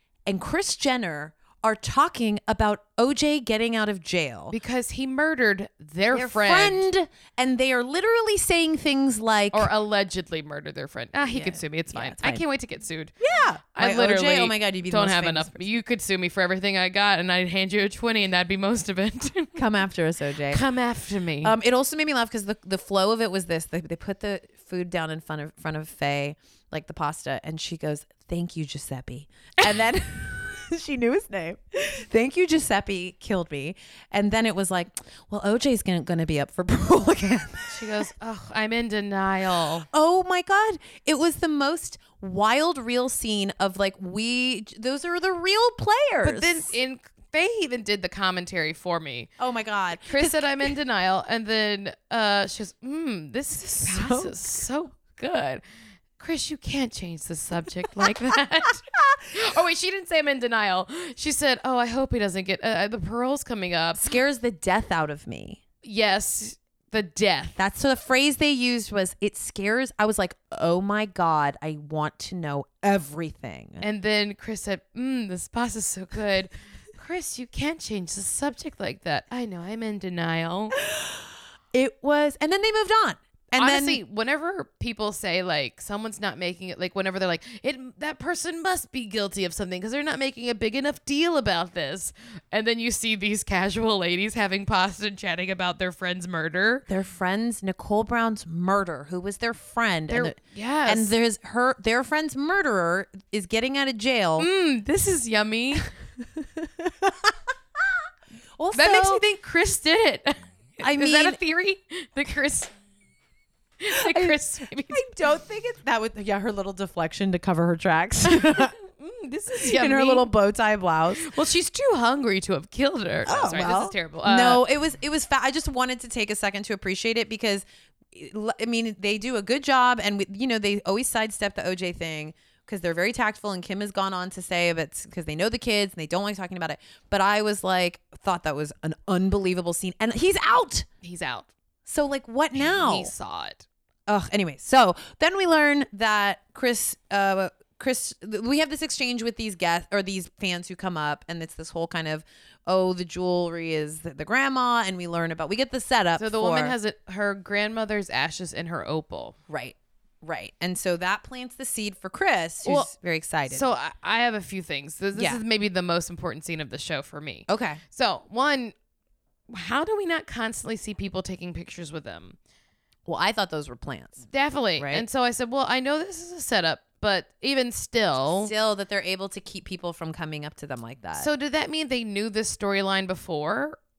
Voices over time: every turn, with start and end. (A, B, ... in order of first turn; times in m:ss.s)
0:00.3-0:04.6 A
0:04.5-0:06.9 B
0:06.1-0:09.7 A
0:09.5-0:13.1 B
0:11.3-0:12.4 A
0:13.2-0:15.7 A
0:13.7-0:19.6 B
0:19.6-0:20.6 A
0:20.5-0:21.6 B
0:21.4-0:38.1 A
0:37.7-0:39.9 B
0:39.9-0:46.8 A
0:46.2-0:49.3 B
0:49.4-0:50.7 A
0:50.0-0:55.6 B
0:53.8-0:54.4 A
0:56.2-1:04.1 B
0:59.0-0:59.2 A
1:04.0-1:05.6 A
1:05.8-1:07.6 B
1:07.6-1:13.8 A
1:13.8-1:20.8 B
1:20.8-1:24.0 A
1:23.6-1:36.9 B
1:36.9-1:44.5 A
1:40.1-1:41.1 B
1:44.4-1:45.9 B
1:46.2-1:47.9 A
1:48.6-1:49.2 A
1:48.7-1:52.7 B
1:50.8-1:51.4 A
1:53.8-1:55.1 B
1:53.9-1:54.4 A
1:54.9-1:58.8 A
1:58.5-2:00.3 B
1:59.6-2:01.3 A
2:01.2-2:04.6 B
2:03.3-2:20.9 A
2:21.0-2:21.5 B
2:21.9-2:23.1 A
2:22.6-2:23.7 B
2:24.1-2:36.8 A
2:36.2-2:39.4 B
2:39.5-2:43.6 A
2:42.6-2:42.9 B
2:43.5-2:48.7 B
2:45.2-2:45.4 A
2:47.5-2:47.8 A
2:49.5-2:52.4 B
2:53.1-2:54.2 A
2:54.2-2:58.5 B
2:54.8-2:55.0 A
2:58.4-3:01.3 A
3:01.2-3:03.8 B